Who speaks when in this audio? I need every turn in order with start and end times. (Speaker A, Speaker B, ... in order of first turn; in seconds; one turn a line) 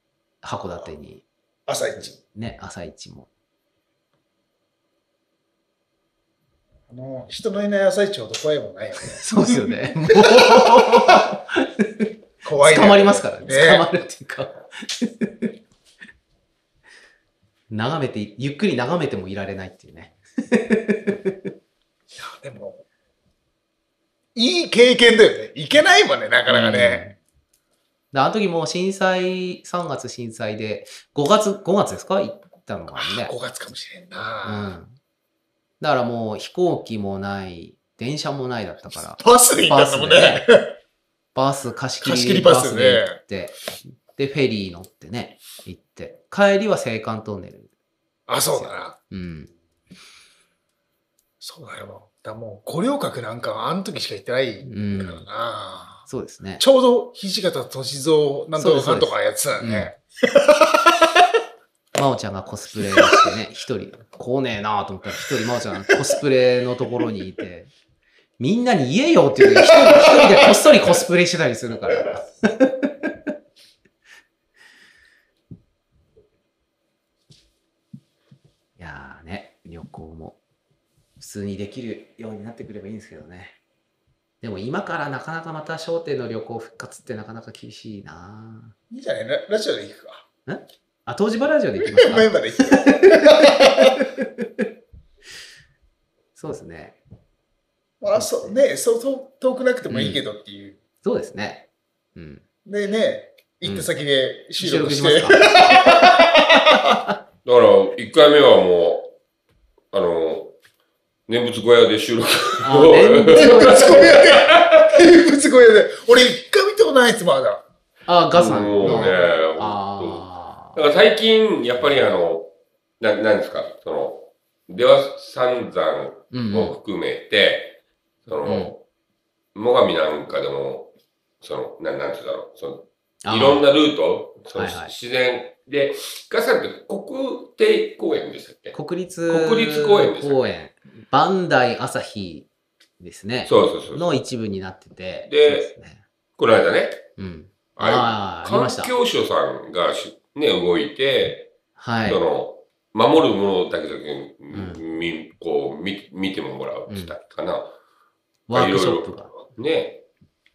Speaker A: 0.4-1.2
Speaker B: 1.7-2.2
Speaker A: 2.0-3.3
Speaker B: 6.9-11.1
Speaker A: 9.1-15.5
Speaker B: 12.4-13.9
Speaker A: 17.7-21.4
Speaker B: 22.2-22.9
Speaker B: 24.4-27.1
Speaker A: 26.5-27.2
Speaker A: 28.1-33.3
Speaker B: 32.9-34.8
Speaker A: 34.4-35.0
Speaker A: 35.8-40.5
Speaker B: 39.2-40.8
Speaker A: 41.3-47.7
Speaker B: 42.0-43.2
Speaker B: 48.3-49.0
Speaker A: 48.4-49.5
Speaker B: 51.4-60.9
Speaker A: 54.6-55.3
Speaker A: 56.1-56.6
Speaker A: 58.5-59.9
Speaker A: 62.0-67.7
Speaker A: 68.4-73.1
Speaker B: 69.8-70.3
Speaker A: 78.8-80.4
Speaker A: 81.2-83.6
Speaker A: 84.4-88.8
Speaker B: 88.9-90.2
Speaker A: 90.5-92.7
Speaker B: 91.8-93.9
Speaker A: 93.3-94.5
Speaker A: 96.3-97.0
Speaker B: 98.0-100.8
Speaker A: 98.1-98.6
Speaker A: 99.9-100.2
Speaker A: 101.0-102.4
Speaker B: 102.7-106.8
Speaker A: 103.6-103.9
Speaker A: 104.6-105.9
Speaker C: 107.4-109.1
Speaker C: 109.9-110.5
Speaker C: 111.3-114.8
Speaker A: 112.6-114.2
Speaker B: 113.4-117.6
Speaker A: 118.1-120.8
Speaker C: 118.3-128.8
Speaker B: 118.8-119.3
Speaker A: 126.3-126.8
Speaker A: 128.4-128.7
Speaker C: 129.6-130.9
Speaker C: 131.4-140.5
Speaker A: 133.2-133.7
Speaker A: 134.5-134.9
Speaker A: 138.7-142.5
Speaker A: 143.0-146.0
Speaker C: 143.4-144.2
Speaker C: 145.3-145.7
Speaker C: 146.4-147.1
Speaker A: 147.2-149.0
Speaker C: 147.8-151.5
Speaker A: 151.8-152.2
Speaker C: 152.1-157.7
Speaker A: 154.5-154.8
Speaker A: 156.9-157.2
Speaker A: 158.5-159.4
Speaker C: 158.5-160.0